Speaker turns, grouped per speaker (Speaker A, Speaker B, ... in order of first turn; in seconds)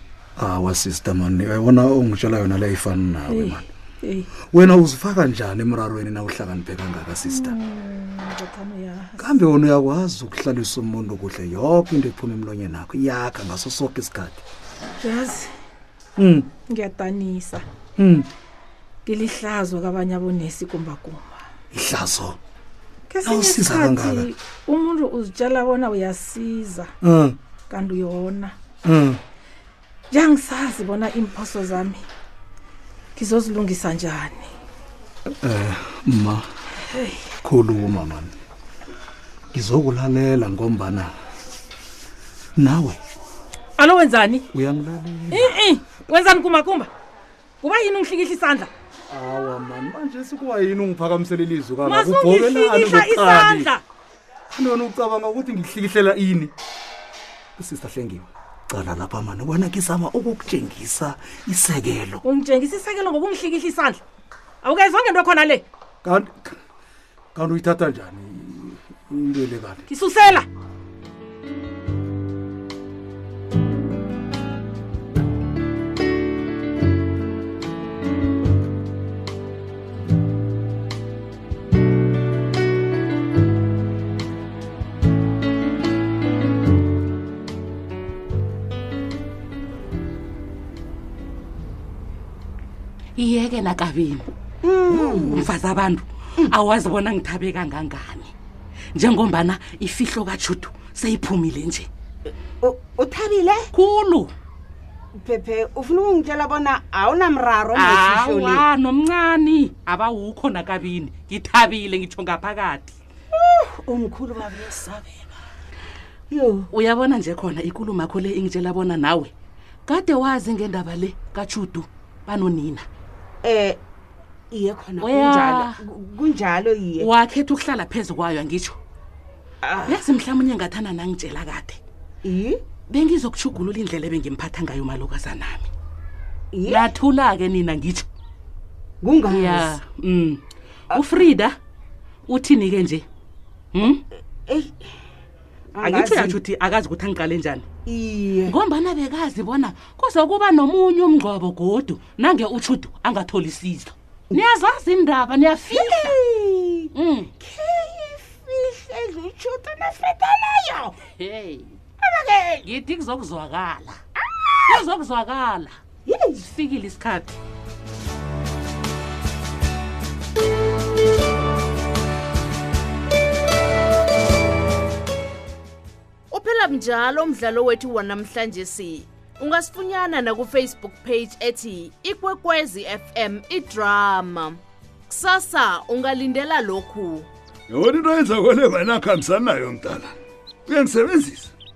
Speaker A: 0.4-3.6, 4.5-7.5, 9.2-14.4, 16.2-16.5, 18.0-18.3, 21.7-22.4, 23.2-24.3, 27.0-27.4, 28.8-29.2, 35.3-36.5, 37.4-38.3, 39.5-41.1, 42.6-43.0, 44.5-45.5, 49.1-53.7, 54.5-56.5, 57.6-62.2, 66.0-66.5, 67.3-69.8
Speaker B: 3.3-4.3, 7.3-9.4, 15.0-15.5, 16.7-17.6, 19.0-21.4, 23.1-26.9, 27.7-28.5, 30.1-32.0, 33.1-34.5, 43.8-44.5, 45.3-46.9, 47.6-48.7, 51.8-53.8, 62.2-64.0, 64.6-65.6, 69.9-70.5
Speaker C: 93.2-94.3, 94.9-98.3, 99.0-101.9, 103.7-104.3, 107.7-112.9, 116.7-119.3, 119.8-122.8, 125.0-125.8, 127.0-128.8, 129.9-131.8, 132.9-135.7, 136.7-138.1, 139.2-140.4, 140.9-141.6, 142.3-143.0, 143.7-144.0, 145.8-147.6, 148.5-156.2, 156.9-157.3, 161.2-161.7, 162.6-164.0, 164.7-165.7, 166.4-167.4
Speaker D: 94.6-95.5, 102.6-103.7, 105.1-108.7, 113.3-115.2, 116.3-116.7, 123.4-123.8, 124.5-127.1, 129.6-130.1, 132.2-132.6, 136.5-136.9, 139.0-139.8, 140.9-141.2, 144.5-144.8, 145.7-146.4, 147.9-148.6, 155.7-161.0, 162.0-162.6, 164.2-164.8, 166.1-166.5
Speaker E: 176.3-187.3
Speaker F: 187.7-190.1, 190.7-191.5